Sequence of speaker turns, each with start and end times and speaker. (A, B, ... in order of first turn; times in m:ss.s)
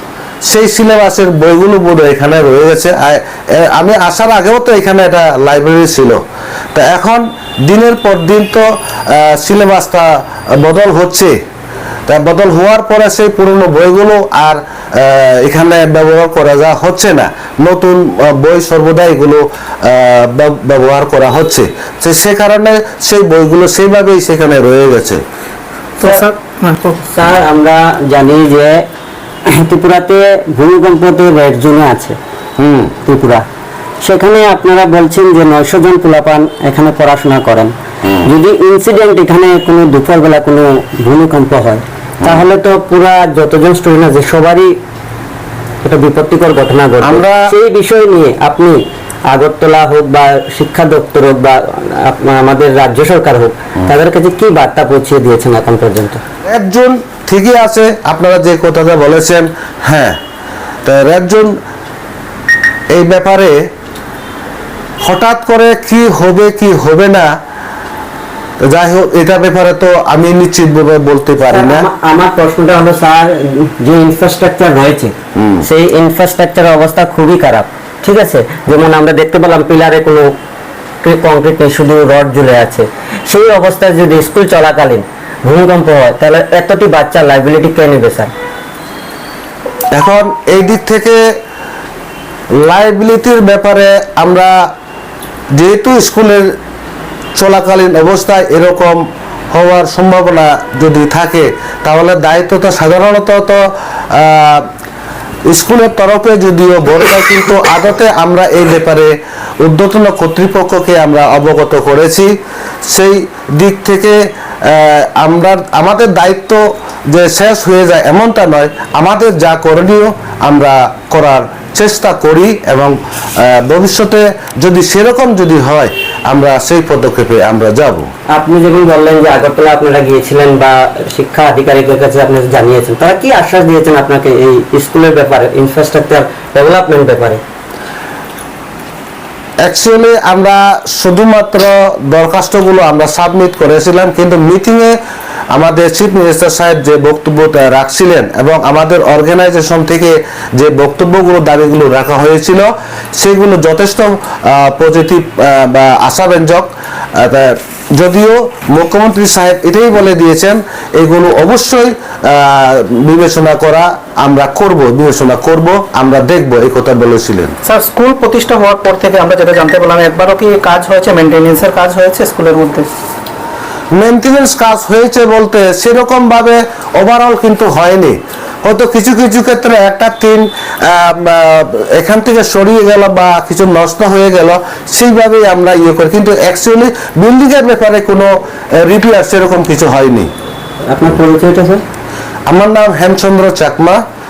0:00.4-0:06.2 A
0:06.7-0:11.3 A
0:12.1-0:25.2 A
0:26.0-0:27.0 B
0:27.0-0:28.9 C
0:29.5-0:32.2 C
0:32.6-0:32.9 A
0:33.0-0:33.4 C
0:34.0-0:37.7 C
0:38.0-0:38.3 A
0:38.2-0:44.8 C
0:45.8-0:56.2 C
0:47.0-0:47.5 A
0:56.4-1:00.2 A
1:00.8-1:01.5 A
1:02.9-1:03.6 A
1:05.0-1:07.3 A
1:08.7-1:11.9 A
1:11.5-1:20.3 C
1:15.3-1:15.6 A
1:21.0-1:28.3 C
1:29.9-1:31.2 A
1:32.6-1:34.6 A
1:35.5-1:36.4 A
1:37.4-1:39.0 A
1:39.5-1:43.6 A
1:44.1-1:44.7 A
1:45.5-1:52.3 A
1:52.9-2:08.1 A
2:08.3-2:17.4 C
2:19.6-2:25.0 A
2:25.5-2:47.5 A
2:47.6-2:52.9 B
2:53.9-3:10.3 A
3:10.8-3:11.8 C
3:12.5-3:14.0 A